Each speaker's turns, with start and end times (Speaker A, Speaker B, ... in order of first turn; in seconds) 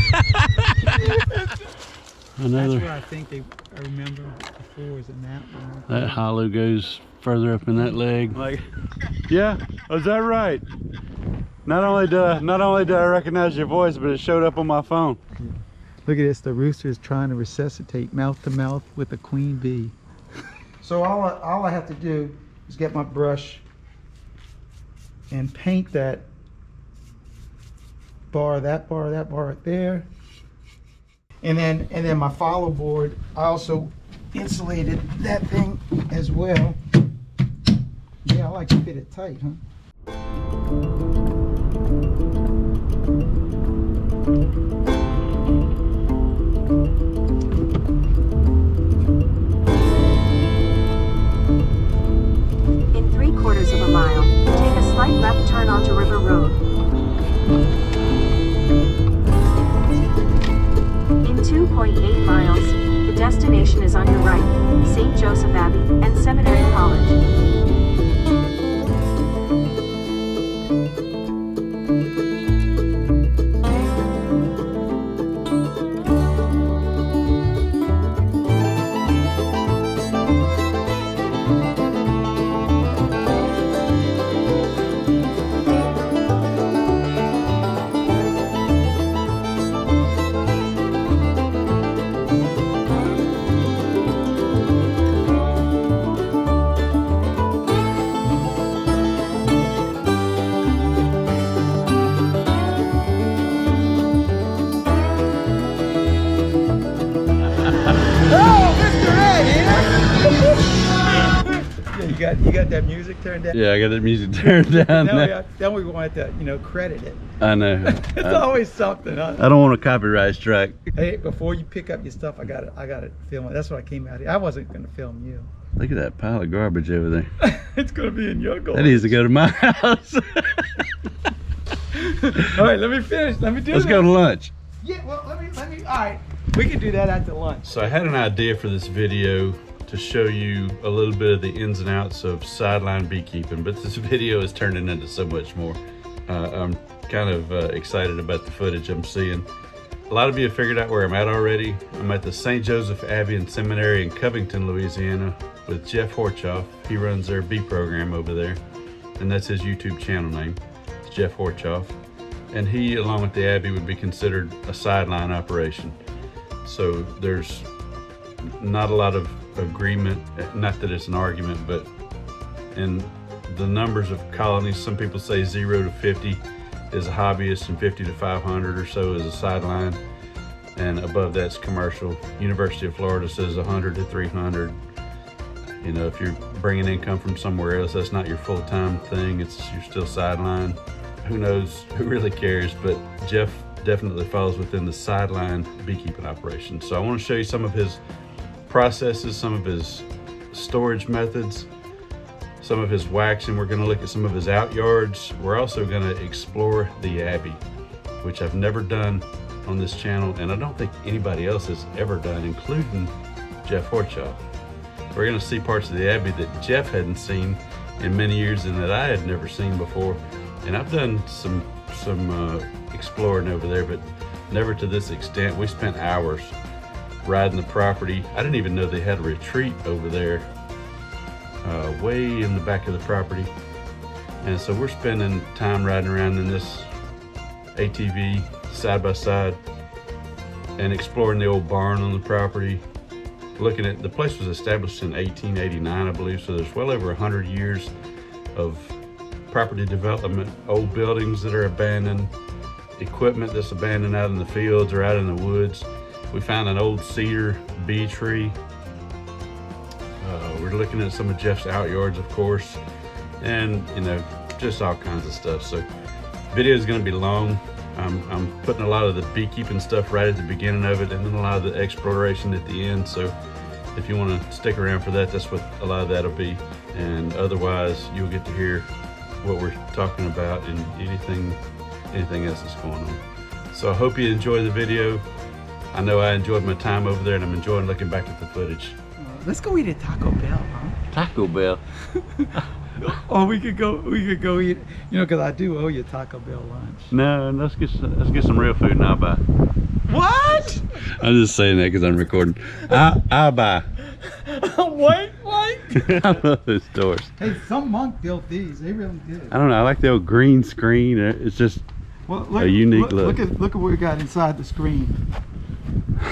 Speaker A: 0.7-1.7, 2.5-6.2, 15.4-19.9, 20.8-23.6, 25.3-26.3, 28.3-30.1, 31.4-36.8, 38.2-39.6, 108.1-113.6, 114.4-117.2, 117.8-119.4, 120.9-125.5, 127.4-129.2, 131.9-134.1, 134.8-137.8, 289.2-291.1, 292.3-297.1, 300.1-301.1, 304.1-306.1, 307.4-309.5, 312.3-315.2
Speaker B: 2.4-2.9, 5.9-8.6, 9.3-10.6, 11.6-15.2, 113.5-115.3, 117.4-118.5, 119.4-120.8, 125.8-127.3, 128.7-130.8, 133.7-134.5, 137.6-149.5, 150.1-158.6, 159.2-162.0, 162.5-166.0, 166.6-167.7, 168.4-171.9, 172.7-180.0, 180.7-184.8, 185.8-198.0, 198.7-201.7, 202.6-207.6, 208.2-214.4, 215.1-226.6, 227.2-230.5, 231.6-233.5, 234.4-236.9, 237.7-239.6, 240.8-242.8, 243.6-247.9, 248.5-248.9, 249.5-252.3, 253.0-258.6, 260.2-262.8, 263.4-265.9, 266.5-273.3, 273.9-278.9, 279.4-281.6, 282.1-285.2, 285.9-288.9, 291.1-291.8, 297.1-299.4, 301.2-303.9, 305.9-307.3, 309.5-311.8, 312.6-313.4
Speaker C: 52.9-56.6, 61.2-67.2